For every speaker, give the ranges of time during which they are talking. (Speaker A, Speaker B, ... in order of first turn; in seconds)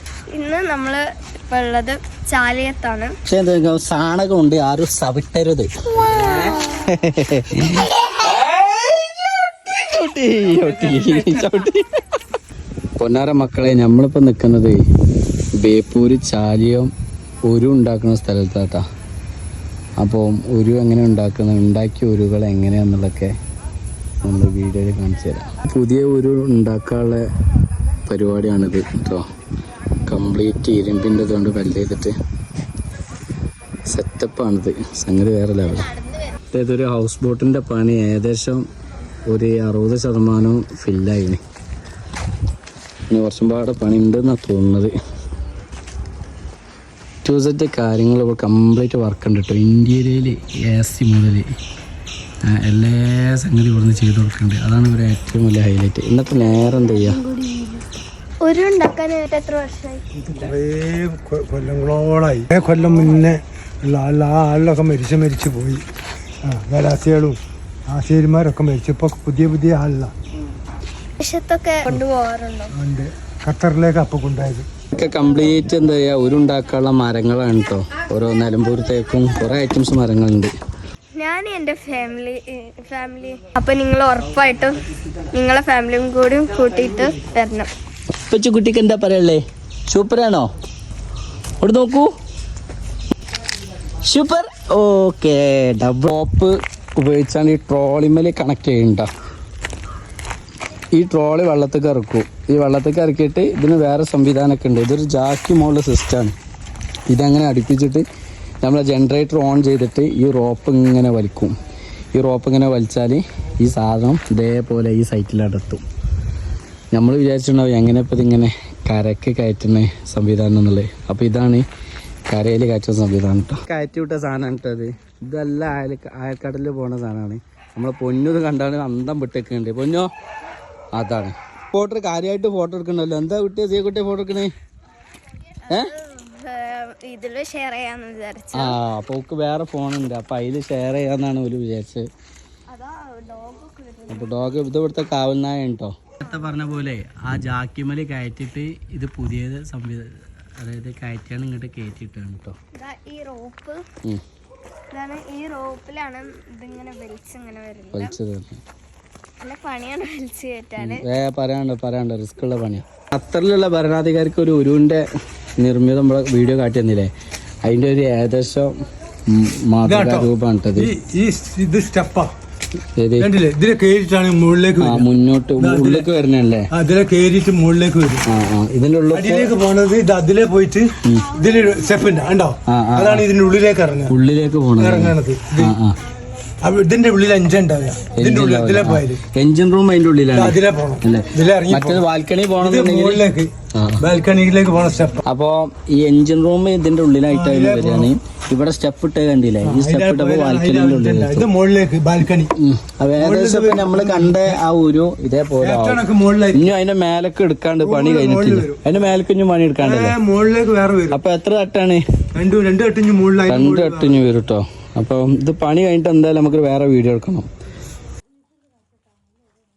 Speaker A: 0.3-3.1, 56.6-57.8, 58.4-60.0, 71.2-72.7, 81.2-84.8, 85.3-87.7, 135.7-138.8, 142.7-144.7, 146.2-146.5, 152.8-153.8, 154.9-158.2, 159.4-161.1
Speaker B: 3.3-8.8, 9.7-12.0, 13.0-14.8, 15.6-16.9, 17.5-18.8, 20.0-23.3, 24.2-27.2, 28.1-29.2, 30.1-32.1, 33.9-35.9, 36.5-38.6, 39.3-41.4, 43.1-44.9, 47.2-51.5, 52.5-57.2, 74.9-80.5, 88.3-90.5, 91.6-92.1, 94.0-99.1, 100.9-106.3, 107.1-108.0, 108.6-111.5, 112.1-115.8, 116.9-121.6, 122.3-130.1, 130.9-134.5, 138.5-142.1, 144.1-152.6, 157.9-158.6, 160.8-165.1, 165.6-167.1, 167.6-168.7, 169.3-170.9, 173.0-173.3, 174.8-176.7, 178.3-179.5, 181.1-181.3, 182.7-183.2, 184.1-186.0, 188.1-194.1, 195.3-201.5, 202.6-210.2, 211.1-212.0, 213.5-217.5
Speaker C: 60.2-65.8, 66.4-70.1, 72.7-74.7, 169.8-172.3, 173.2-176.1, 176.7-178.2, 179.1-184.2, 184.8-185.8, 186.6-189.2, 190.3-192.1, 192.6-195.2, 197.3-198.1, 199.6-202.5, 203.2-204.6, 205.6-206.7, 207.8-208.9, 209.8-211.2, 212.3-214.3